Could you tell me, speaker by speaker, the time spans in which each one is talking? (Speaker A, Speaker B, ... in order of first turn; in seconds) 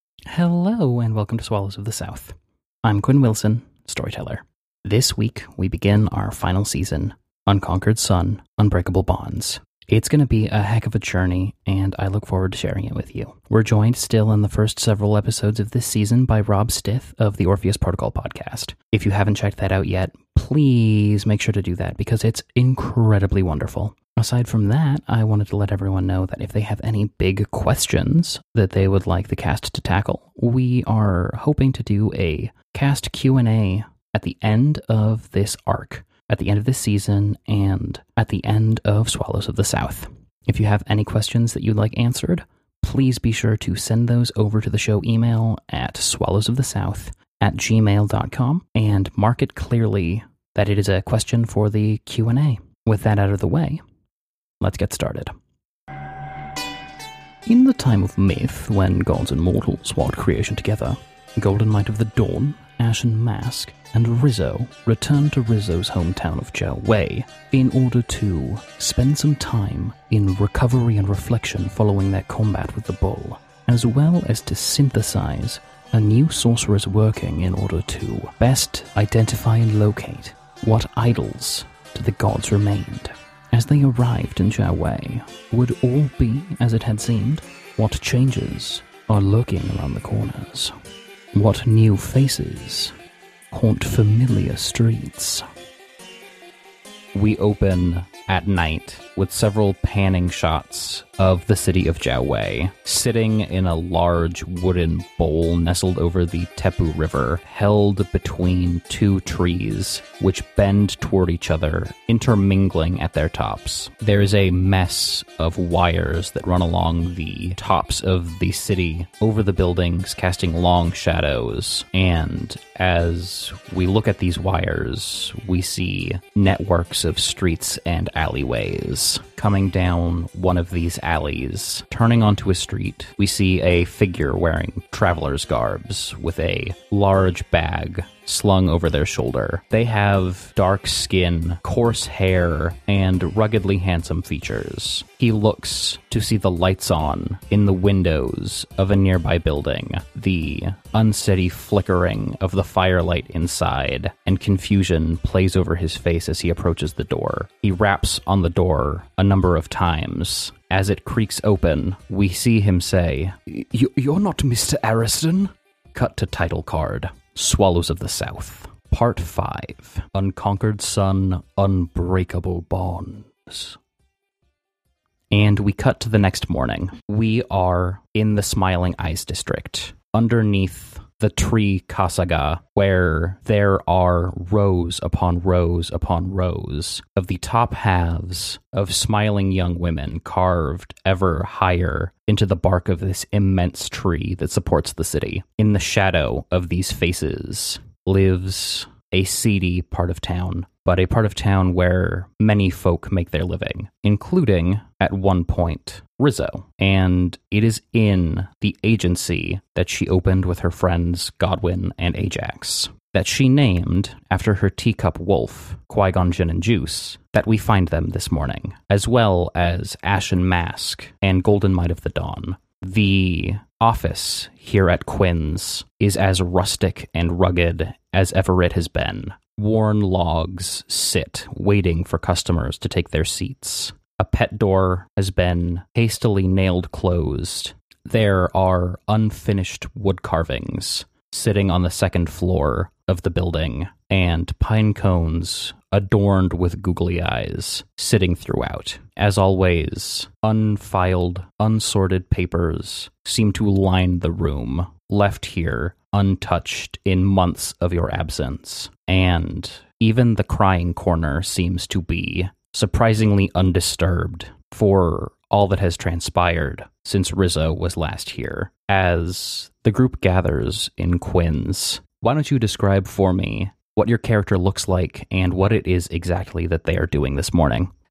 Speaker A: 0.3-53.8, 54.6-55.3, 57.5-90.7, 91.3-92.9, 93.5-95.4, 97.1-173.8, 175.3-277.9